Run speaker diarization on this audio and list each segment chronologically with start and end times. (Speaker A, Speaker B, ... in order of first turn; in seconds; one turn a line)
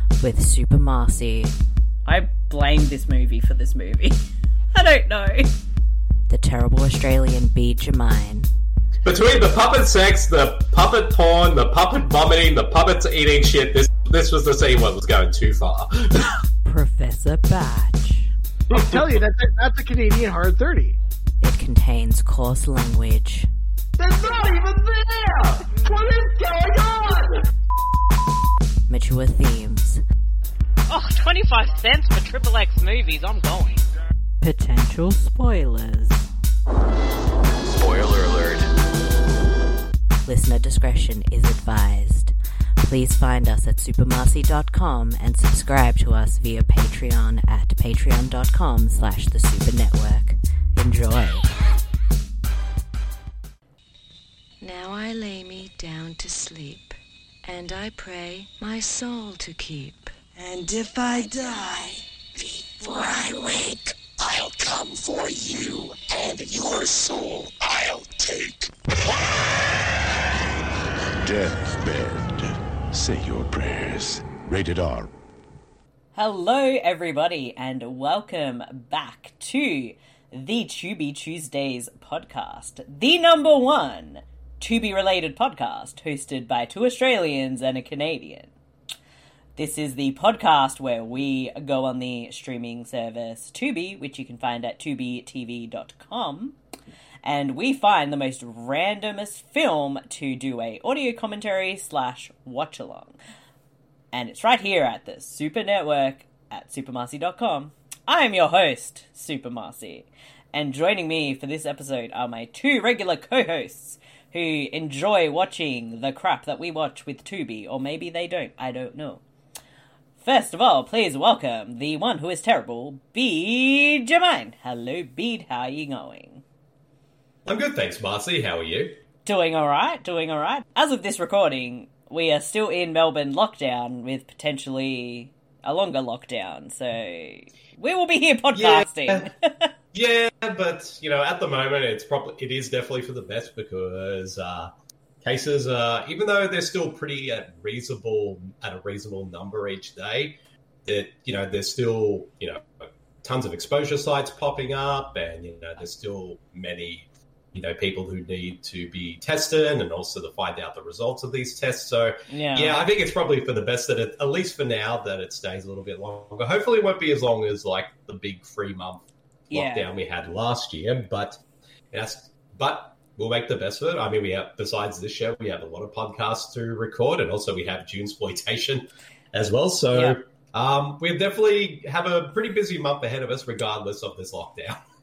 Speaker A: 0.2-1.5
Speaker B: 2.0-4.2
Speaker B: 4.7-5.5
Speaker A: 6.3-8.5
Speaker C: 9.0-16.3
Speaker A: 16.6-18.3
Speaker D: 18.7-21.0
Speaker C: 18.7-19.1
Speaker A: 21.4-23.5
Speaker C: 24.0-27.4
Speaker A: 28.9-30.0
Speaker E: 30.9-33.9
Speaker A: 34.4-36.3
Speaker F: 37.8-38.5
Speaker A: 40.2-51.5
Speaker G: 54.6-61.7
Speaker F: 60.4-69.6
Speaker F: 71.2-75.1
Speaker B: 76.1-88.5
Speaker B: 89.5-96.6
Speaker B: 97.2-103.2
Speaker B: 104.1-119.2
Speaker B: 120.2-126.4
Speaker C: 127.5-129.0
Speaker B: 129.2-139.7
Speaker C: 138.5-139.3
Speaker C: 139.9-144.7
Speaker C: 145.2-171.4
Speaker B: 162.3-162.8
Speaker B: 169.5-169.9
Speaker C: 171.9-184.8
Speaker B: 179.9-180.2